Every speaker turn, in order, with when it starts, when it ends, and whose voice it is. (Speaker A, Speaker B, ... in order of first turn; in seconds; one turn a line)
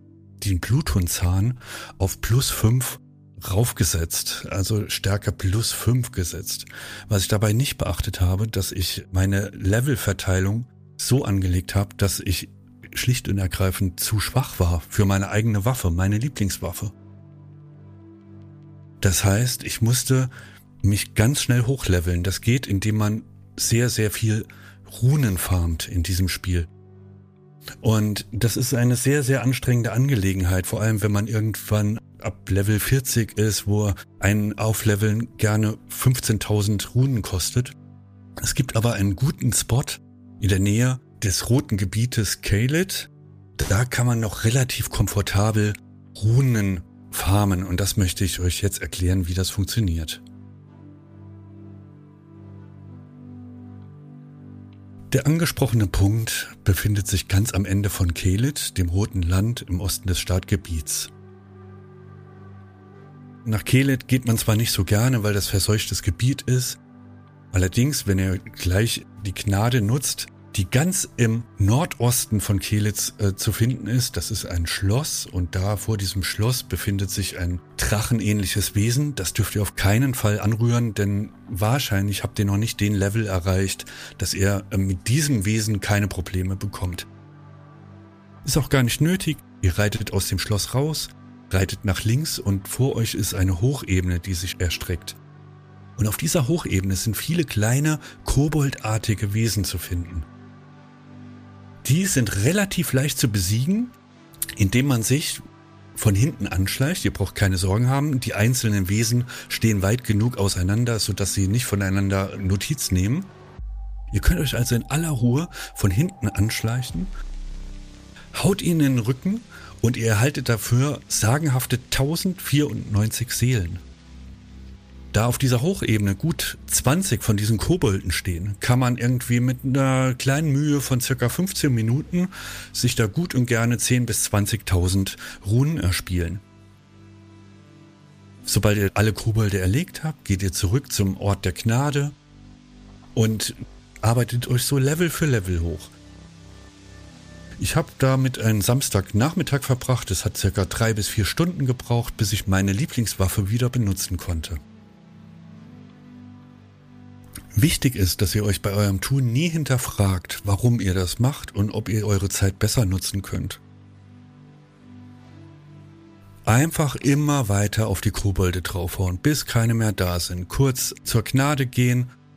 Speaker A: 0.4-16.9
Speaker A: 19.0-20.3
Speaker A: 20.8-26.7
Speaker A: 27.8-37.8
Speaker A: 38.4-50.2
Speaker A: 55.1-61.1
Speaker A: 63.5-66.8
Speaker A: 67.5-87.1
Speaker A: 88.4-95.2
Speaker A: 96.0-100.3
Speaker A: 101.8-104.0
Speaker A: 104.6-105.4
Speaker A: 106.0-113.3
Speaker A: 114.1-117.1
Speaker A: 118.3-123.8
Speaker A: 125.1-136.4
Speaker A: 138.4-142.2
Speaker A: 143.2-145.9
Speaker A: 147.6-154.6
Speaker A: 157.6-163.6
Speaker A: 166.5-172.1